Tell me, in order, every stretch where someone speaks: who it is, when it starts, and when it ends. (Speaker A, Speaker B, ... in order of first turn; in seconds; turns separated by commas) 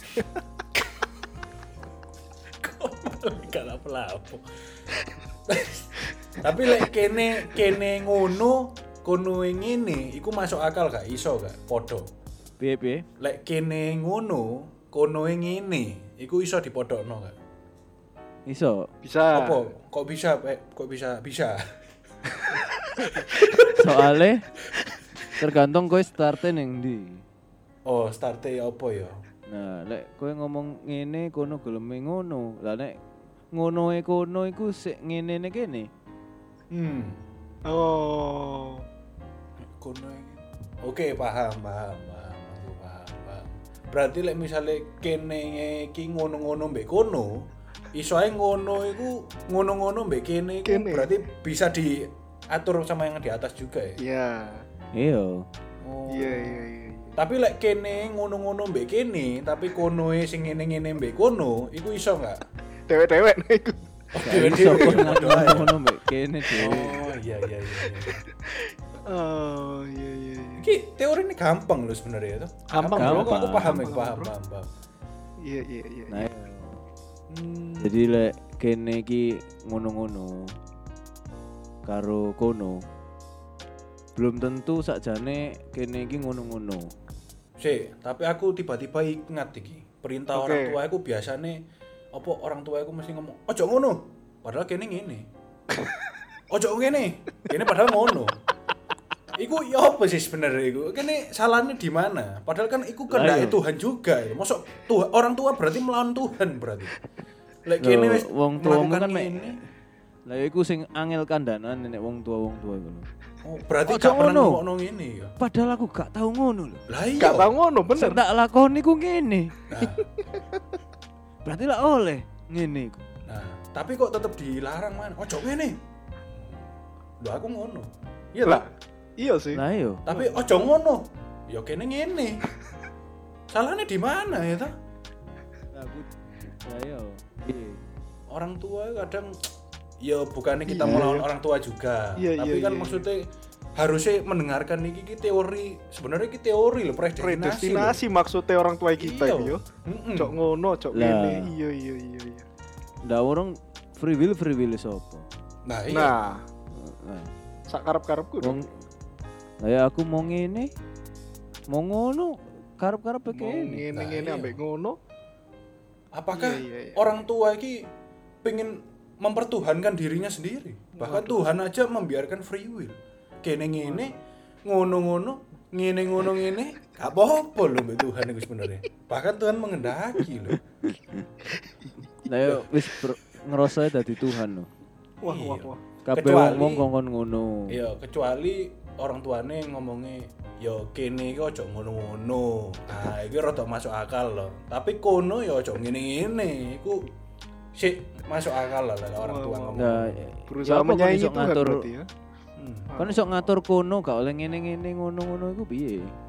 Speaker A: 2.6-4.4, Speaker A: 5.5-12.1, Speaker B: 12.6-13.1, Speaker A: 13.2-17.4, Speaker B: 18.5-18.9, Speaker C: 19.0-19.6, Speaker A: 19.3-21.8, Speaker C: 23.1-23.7, Speaker B: 23.6-24.5, Speaker B: 25.3-27.2, Speaker A: 27.9-29.2, Speaker B: 29.5-33.0, Speaker B: 33.5-35.9, Speaker A: 36.7-37.2, Speaker C: 37.6-38.8, Speaker A: 39.8-54.0, Speaker C: 50.6-51.1, Speaker C: 54.0-54.7, Speaker B: 54.9-55.5, Speaker A: 55.8-62.4, Speaker C: 56.1-57.2, Speaker C: 62.9-63.8, Speaker A: 64.1-65.8, Speaker B: 64.2-67.0, Speaker A: 66.5-68.2, Speaker C: 67.8-70.7, Speaker A: 70.6-74.7, Speaker C: 72.7-74.3, Speaker B: 73.0-73.8, Speaker C: 75.4-76.3, Speaker B: 76.1-76.8, Speaker A: 77.3-78.3, Speaker B: 77.8-80.5, Speaker B: 81.8-82.8, Speaker B: 84.2-86.9, Speaker A: 87.6-91.6, Speaker C: 90.3-90.8, Speaker A: 92.1-95.3, Speaker A: 96.5-98.3, Speaker A: 99.4-106.9, Speaker B: 103.1-103.6, Speaker A: 107.7-109.6, Speaker B: 107.8-109.5, Speaker B: 110.3-113.0, Speaker A: 113.4-115.3, Speaker B: 113.9-114.6, Speaker B: 115.4-116.8, Speaker A: 116.9-117.5, Speaker C: 117.2-118.2, Speaker B: 118.0-119.6, Speaker A: 119.7-120.0, Speaker B: 121.4-123.0, Speaker A: 123.2-125.8, Speaker A: 127.2-128.7, Speaker C: 128.4-129.6, Speaker B: 129.5-130.1, Speaker A: 130.1-132.4, Speaker A: 133.5-134.8, Speaker B: 135.7-137.8, Speaker A: 138.3-139.4, Speaker A: 140.0-148.0, Speaker C: 140.7-141.3, Speaker C: 142.2-143.1, Speaker C: 147.2-149.6, Speaker A: 149.0-150.4, Speaker C: 150.2-152.4, Speaker B: 150.9-151.5, Speaker B: 153.1-155.3, Speaker A: 155.7-156.2, Speaker C: 155.9-156.4, Speaker B: 156.7-157.3, Speaker C: 157.7-158.6, Speaker B: 158.4-158.7, Speaker B: 159.6-160.7, Speaker B: 161.7-163.8, Speaker C: 163.3-165.0, Speaker A: 163.9-164.6, Speaker A: 166.1-167.9, Speaker C: 166.3-167.1, Speaker A: 168.4-180.6, Speaker C: 170.9-171.4, Speaker B: 180.8-181.2, Speaker B: 182.2-184.7, Speaker C: 185.2-185.8, Speaker A: 185.2-186.9, Speaker B: 186.1-187.7, Speaker A: 187.7-197.1, Speaker A: 197.7-200.2, Speaker C: 199.2-199.9, Speaker B: 199.8-201.8, Speaker C: 200.5-202.1, Speaker A: 202.6-202.9, Speaker C: 202.9-203.3, Speaker B: 203.0-206.1